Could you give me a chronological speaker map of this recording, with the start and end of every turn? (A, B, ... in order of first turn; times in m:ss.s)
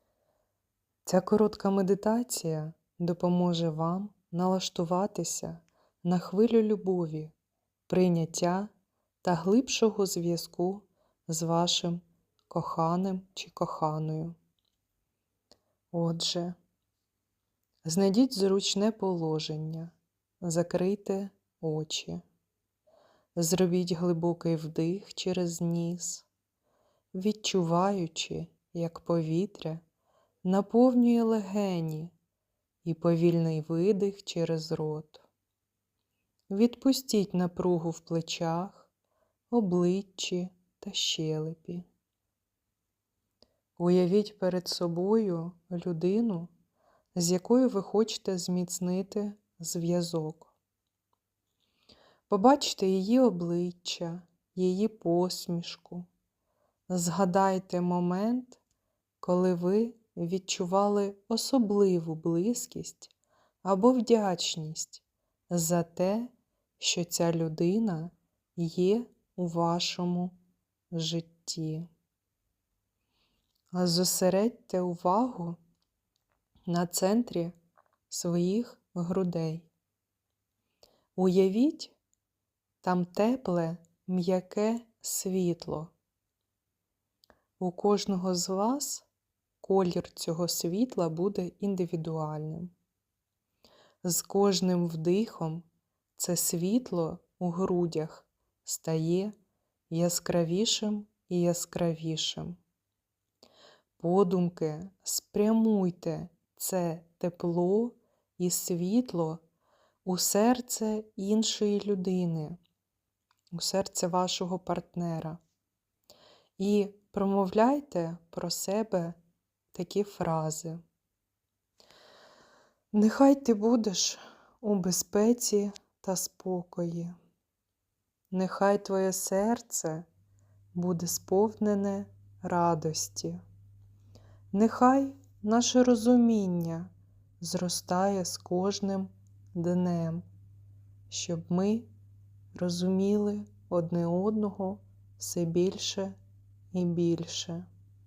0:01.1-0:07.3 A
0:07.9-0:08.7 A
0:09.2-0:14.4 A
0:15.9-0:16.6 A
0:17.8-0:22.2 A
0:23.4-0:26.3 A
0:27.1-0:29.8 A
0:30.4-0:32.1 A
0:32.8-0:35.2 A
0:36.5-0:38.9 A
0:39.5-0:41.8 A
0:43.8-0:46.5 A
0:47.2-0:50.5 A
0:52.3-0:56.1 A
0:56.9-0:58.6 A
0:59.2-1:10.4 A
1:10.9-1:11.9 A
1:13.7-1:15.6 A
1:16.7-1:17.6 A
1:18.1-1:19.7 A
1:21.2-1:22.0 A
1:22.8-1:25.9 A
1:27.6-1:29.1 A
1:29.6-1:32.7 A
1:34.0-1:35.6 A
1:36.2-1:39.3 A
1:39.9-1:42.6 A
1:44.0-1:49.4 A
1:50.0-1:52.6 A
1:53.5-1:55.4 A
1:56.6-1:59.2 A
1:59.7-2:00.8 A
2:02.9-2:07.2 A
2:08.3-2:10.1 A
2:10.7-2:13.4 A
2:14.5-2:20.2 A
2:21.1-2:21.9 A
2:22.5-2:26.2 A
2:26.7-2:27.7 A